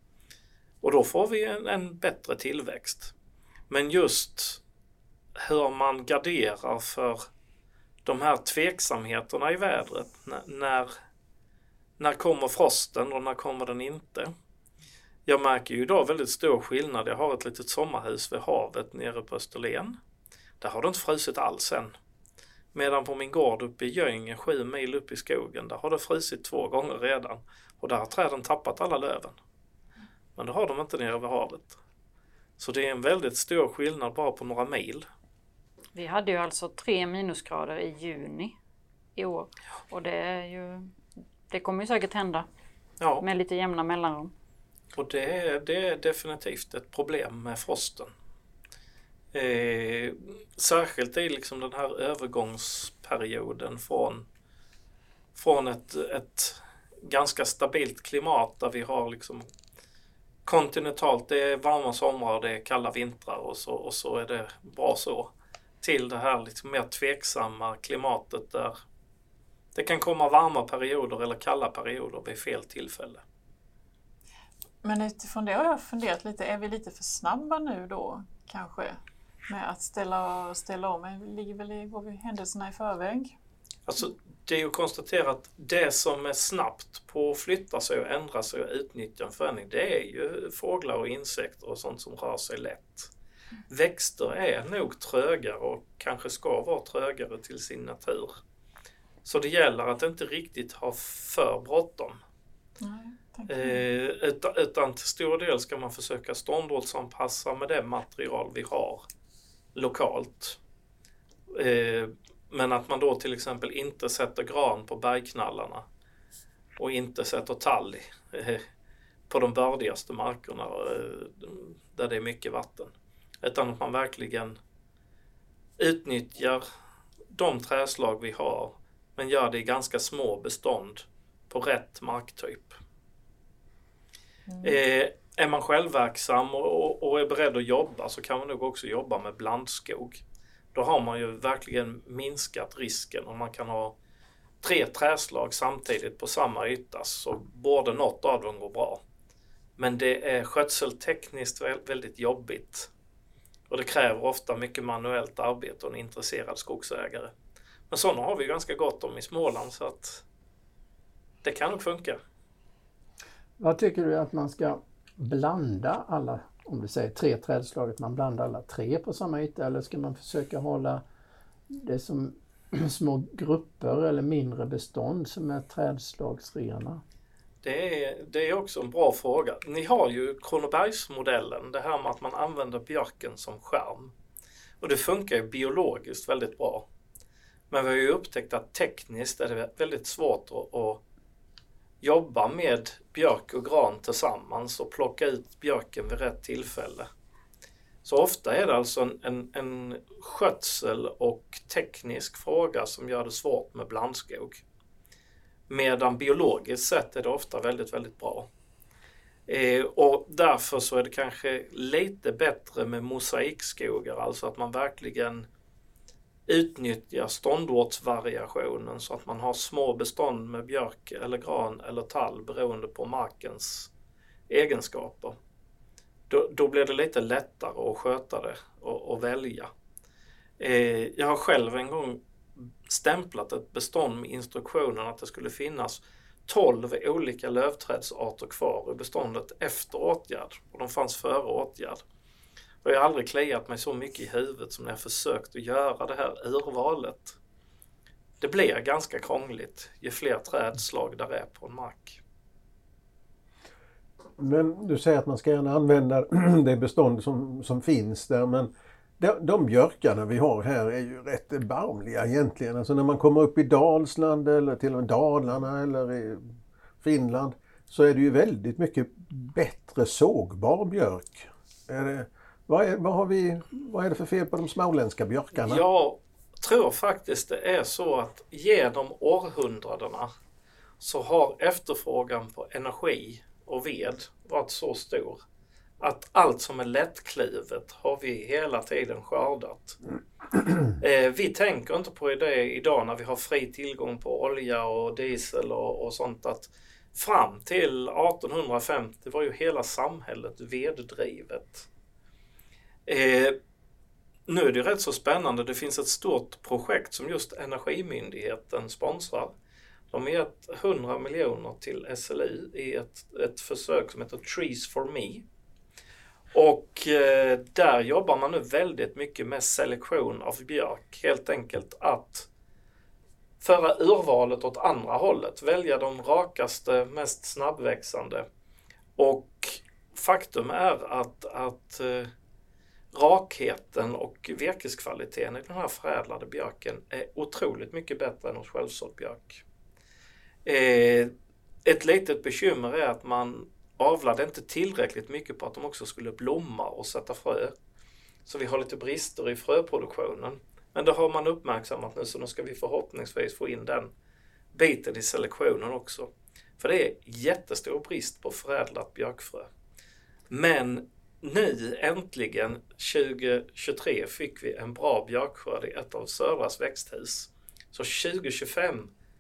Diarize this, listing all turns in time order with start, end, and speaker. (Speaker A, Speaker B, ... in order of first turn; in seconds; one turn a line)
Speaker A: 0.8-3.1
Speaker A: 3.7-4.6
Speaker A: 5.4-7.2
Speaker A: 8.1-10.9
Speaker A: 12.0-14.3
Speaker A: 15.3-20.0
Speaker A: 20.6-21.9
Speaker A: 22.7-29.4
Speaker A: 30.4-31.8
Speaker A: 32.6-35.1
Speaker B: 35.9-38.6
Speaker B: 39.2-40.9
Speaker B: 41.5-42.5
Speaker A: 43.0-43.2
Speaker B: 43.2-44.3
Speaker A: 44.9-48.1
Speaker A: 49.3-54.2
Speaker A: 55.4-59.5
Speaker A: 60.5-68.8
Speaker A: 69.8-73.2
Speaker C: 74.8-83.4
Speaker A: 83.9-93.1
Speaker A: 93.7-98.4
Speaker A: 99.2-102.2
Speaker C: 102.8-103.8
Speaker A: 103.5-109.0
Speaker A: 109.8-110.6
Speaker A: 111.5-115.8
Speaker A: 116.8-118.6
Speaker A: 119.3-124.6
Speaker A: 125.8-126.6
Speaker A: 127.3-132.8
Speaker C: 134.5-134.8
Speaker A: 134.6-140.2
Speaker A: 140.7-144.0
Speaker A: 144.6-149.0
Speaker A: 149.8-152.9
Speaker A: 153.7-157.3
Speaker A: 157.9-160.2
Speaker A: 161.4-162.2
Speaker D: 163.6-171.0
Speaker D: 171.7-177.0
Speaker A: 177.6-184.1
Speaker A: 184.8-186.9
Speaker A: 187.7-191.0
Speaker A: 192.0-197.1
Speaker A: 198.0-204.6
Speaker A: 205.7-208.5
Speaker A: 209.5-215.5
Speaker A: 216.5-223.9
Speaker A: 224.5-225.4
Speaker A: 226.3-229.7
Speaker A: 230.6-242.0
Speaker A: 242.8-247.4
Speaker A: 248.4-252.2
Speaker E: 254.4-266.5
Speaker E: 267.0-275.8
Speaker A: 275.6-280.3
Speaker A: 281.0-285.4
Speaker A: 286.0-290.0
Speaker A: 290.9-301.9
Speaker A: 303.1-303.6
Speaker A: 304.5-309.5
Speaker A: 310.1-315.4
Speaker A: 316.5-322.5
Speaker A: 323.6-328.5
Speaker A: 329.2-332.3
Speaker A: 333.1-339.6
Speaker A: 340.6-341.3
Speaker A: 341.9-347.7
Speaker A: 348.5-354.1
Speaker A: 354.7-359.7
Speaker A: 360.5-369.1